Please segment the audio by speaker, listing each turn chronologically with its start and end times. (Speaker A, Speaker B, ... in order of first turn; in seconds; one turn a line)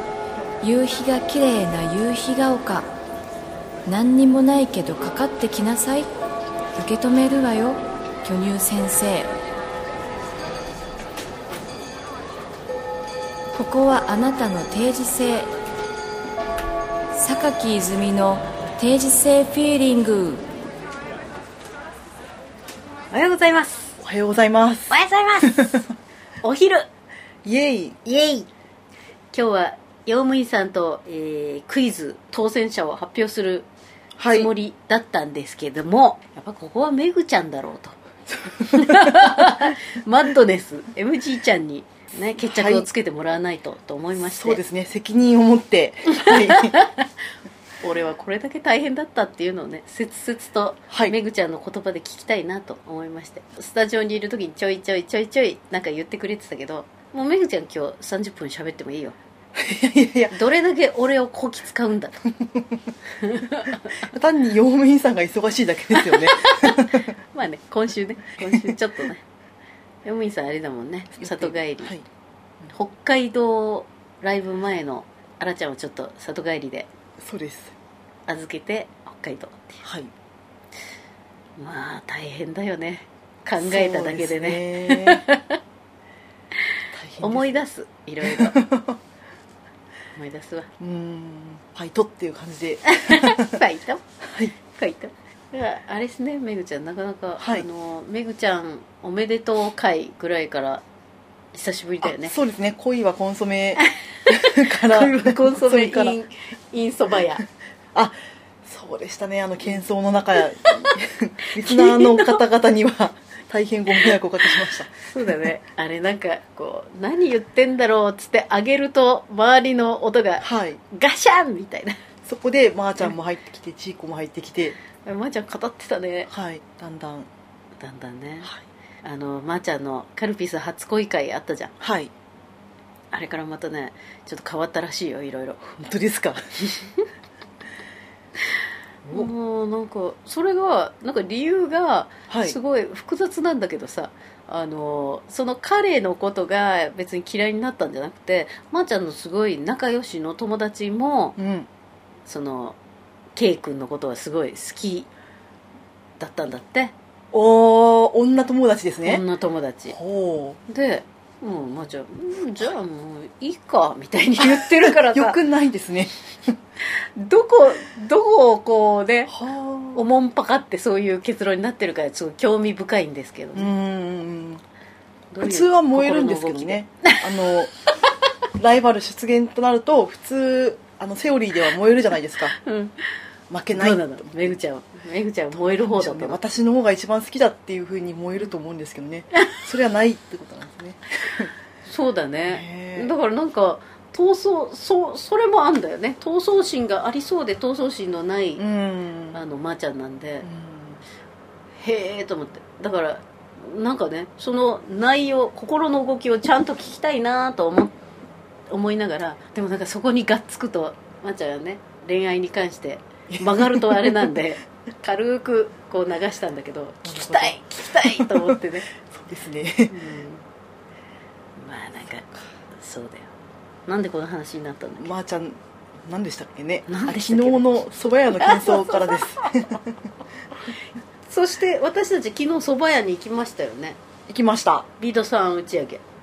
Speaker A: 0.6-2.9
Speaker A: 3.9-6.1
Speaker A: 6.8-9.3
Speaker A: 13.5-15.5
Speaker A: 17.1-20.4
Speaker B: 23.1-24.0
Speaker C: 24.0-25.8
Speaker B: 24.9-25.9
Speaker B: 26.4-26.9
Speaker C: 27.4-28.1
Speaker B: 28.1-28.5
Speaker B: 29.3-33.7
Speaker C: 34.2-34.5
Speaker B: 34.3-38.0
Speaker C: 38.3-39.7
Speaker B: 38.6-44.6
Speaker C: 42.5-42.9
Speaker C: 44.2-46.8
Speaker B: 46.2-47.1
Speaker B: 47.8-59.2
Speaker C: 50.9-51.1
Speaker C: 59.5-60.3
Speaker B: 60.3-62.2
Speaker B: 63.2-64.0
Speaker C: 64.0-67.0
Speaker B: 66.0-69.2
Speaker C: 68.4-68.8
Speaker B: 70.0-71.9
Speaker C: 71.2-72.0
Speaker B: 72.7-76.9
Speaker C: 77.2-77.7
Speaker B: 78.3-79.8
Speaker C: 79.8-80.1
Speaker B: 81.6-85.6
Speaker C: 83.6-85.3
Speaker C: 86.9-87.6
Speaker B: 87.2-88.6
Speaker C: 88.2-89.0
Speaker B: 90.2-90.7
Speaker C: 90.8-93.6
Speaker B: 92.8-94.0
Speaker C: 94.2-94.5
Speaker B: 94.6-100.8
Speaker C: 97.4-97.7
Speaker B: 101.5-102.3
Speaker C: 102.0-106.2
Speaker B: 103.8-107.4
Speaker C: 107.9-115.5
Speaker B: 111.5-112.4
Speaker B: 114.0-122.0
Speaker C: 120.4-120.8
Speaker C: 122.2-124.8
Speaker B: 125.0-126.3
Speaker C: 126.3-127.3
Speaker B: 127.8-128.5
Speaker B: 129.0-131.7
Speaker C: 131.8-132.1
Speaker B: 133.1-135.6
Speaker C: 135.6-136.4
Speaker B: 139.1-151.4
Speaker C: 142.3-142.6
Speaker C: 151.4-151.7
Speaker B: 152.3-152.8
Speaker B: 153.4-155.1
Speaker B: 156.2-156.9
Speaker C: 157.3-159.2
Speaker B: 159.0-160.0
Speaker C: 159.9-160.6
Speaker B: 160.7-165.4
Speaker C: 164.4-166.6
Speaker B: 167.2-169.3
Speaker C: 169.3-170.0
Speaker B: 169.9-173.7
Speaker C: 173.6-174.6
Speaker B: 175.3-177.2
Speaker C: 175.4-177.7
Speaker C: 178.6-182.6
Speaker B: 182.6-183.1
Speaker C: 183.5-184.6
Speaker B: 183.7-186.4
Speaker C: 185.5-191.5
Speaker B: 191.8-198.6
Speaker C: 192.5-193.1
Speaker C: 198.6-199.4
Speaker B: 199.3-200.5
Speaker C: 200.4-201.0
Speaker B: 201.8-207.9
Speaker B: 208.7-218.9
Speaker C: 213.3-214.4
Speaker C: 217.0-219.9
Speaker B: 219.9-220.4
Speaker B: 221.6-223.3
Speaker B: 223.9-225.1
Speaker C: 225.0-230.0
Speaker B: 226.9-227.7
Speaker B: 228.4-229.2
Speaker B: 231.3-234.0
Speaker C: 234.3-234.9
Speaker B: 235.0-236.0